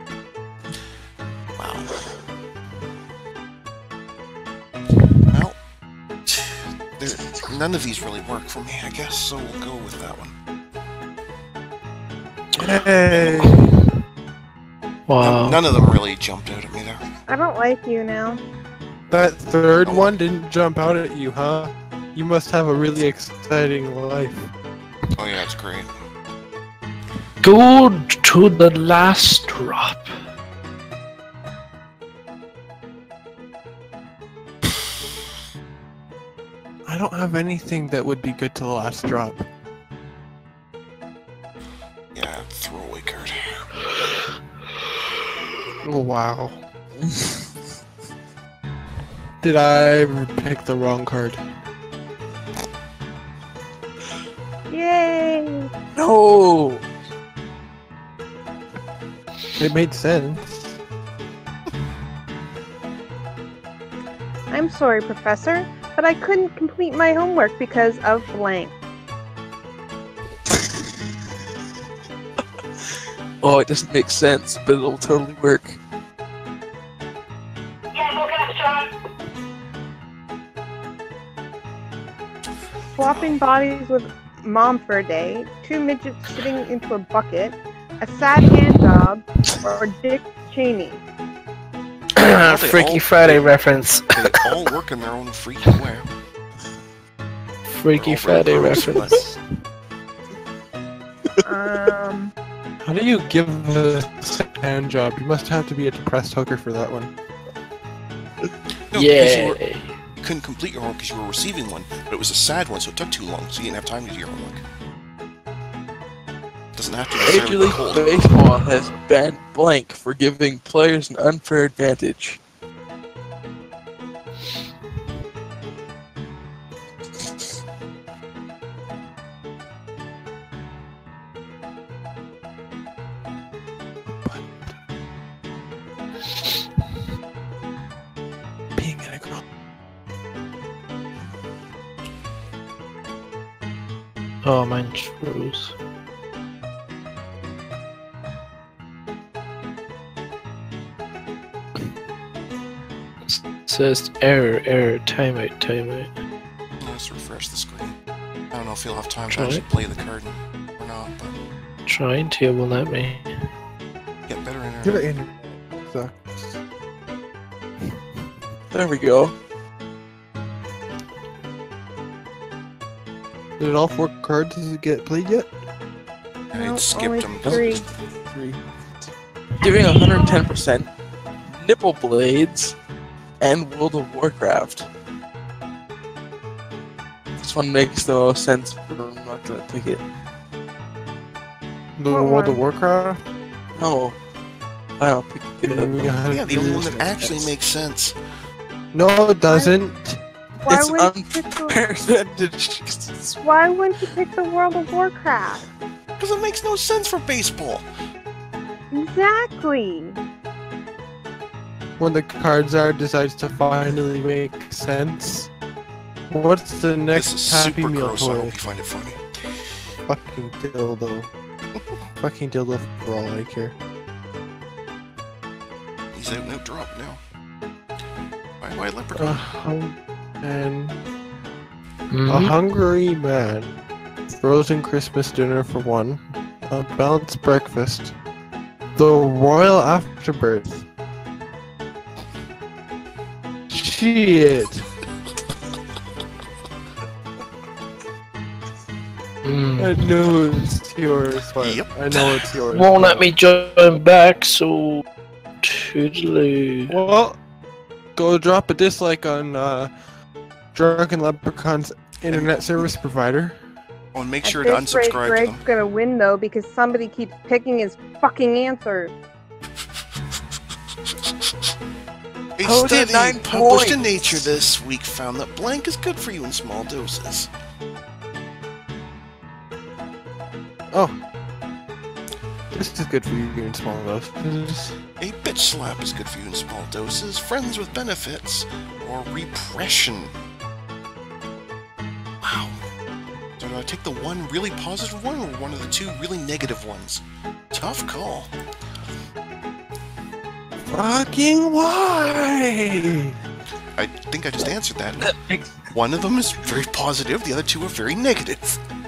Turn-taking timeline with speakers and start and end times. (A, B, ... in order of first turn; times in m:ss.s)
0:01.6-0:02.0 A
0:05.3-0:05.6 A
0:06.3-0:10.4 A
0:12.6-0:13.8 B
0:13.2-0:13.5 A
0:15.1-0:15.9 C
0:15.2-0:17.1 A
0:17.3-0:18.4 D
0:19.1-0:24.5 B
0:19.8-0:20.2 A
0:25.2-0:25.9 A
0:27.4-0:30.2 C
0:36.8-0:39.5 B
0:42.1-0:43.7 A
0:45.8-0:46.6 B
0:47.0-0:47.5 E
0:49.4-0:51.4 B
0:54.7-0:55.7 D
0:56.0-0:56.8 E
0:59.6-1:00.8 B
1:04.5-1:08.8 D
1:13.4-1:15.8 E
1:23.0-1:31.0 D
1:23.0-1:23.4 A
1:32.2-1:34.5 C
1:32.4-1:33.5 A
1:34.1-1:36.1 A
1:37.7-1:39.4 C
1:38.0-1:39.2 A
1:41.4-1:42.3 D
1:42.8-1:47.1 B
1:48.9-1:49.6 A
1:48.9-1:50.0 C
1:50.2-1:54.6 A
1:56.8-1:58.3 A
1:57.2-2:02.4 E
2:14.1-2:14.8 B
2:18.8-2:19.4 B
2:24.4-2:25.8 C
2:33.3-2:36.1 C
2:36.8-2:38.0 A
2:38.5-2:41.3 A
2:39.3-2:39.6 C
2:41.9-2:43.3 C
2:44.3-2:45.1 A
2:44.8-2:46.6 B
2:48.7-2:49.4 E
2:53.6-2:55.5 B
2:56.5-2:57.9 D
2:56.5-2:57.9 A
2:57.4-2:58.6 E
2:59.6-3:00.9 E
3:01.5-3:02.8 E
3:03.4-3:04.9 E
3:07.4-3:10.0 E
3:12.0-3:13.2 B
3:12.1-3:12.6 D
3:13.8-3:14.2 E
3:15.0-3:17.5 E
3:15.6-3:17.0 B
3:16.3-3:18.2 A
3:18.9-3:20.2 B
3:19.5-3:19.7 D
3:20.6-3:21.8 D
3:20.7-3:23.4 E
3:23.4-3:25.7 D
3:26.2-3:27.9 A
3:28.9-3:30.2 D
3:32.0-3:35.5 B
3:36.3-3:38.6 B
3:37.2-3:39.2 A
3:40.1-3:41.3 B
3:42.2-3:43.8 B
3:46.1-3:47.2 A
3:48.6-3:49.6 A
3:49.1-3:51.0 B
3:52.1-3:52.5 C
3:52.3-3:53.7 B
3:54.3-3:58.2 B
3:59.0-4:00.9 B
4:03.7-4:04.9 B
4:09.4-4:10.1 C
4:09.8-4:13.3 B
4:11.6-4:12.4 A
4:12.7-4:15.0 C
4:15.6-4:16.9 C
4:16.9-4:17.4 B
4:18.2-4:19.9 B
4:20.7-4:23.6 B
4:24.1-4:25.6 A
4:24.4-4:29.1 D
4:32.6-4:37.5 A
4:32.6-4:34.0 E
4:42.7-4:45.0 B
4:45.2-4:50.3 A
4:52.4-4:52.8 A
4:53.6-4:58.5 A
5:00.9-5:03.4 B
5:04.0-5:05.4 A
5:05.3-5:05.7 E
5:05.9-5:08.8 A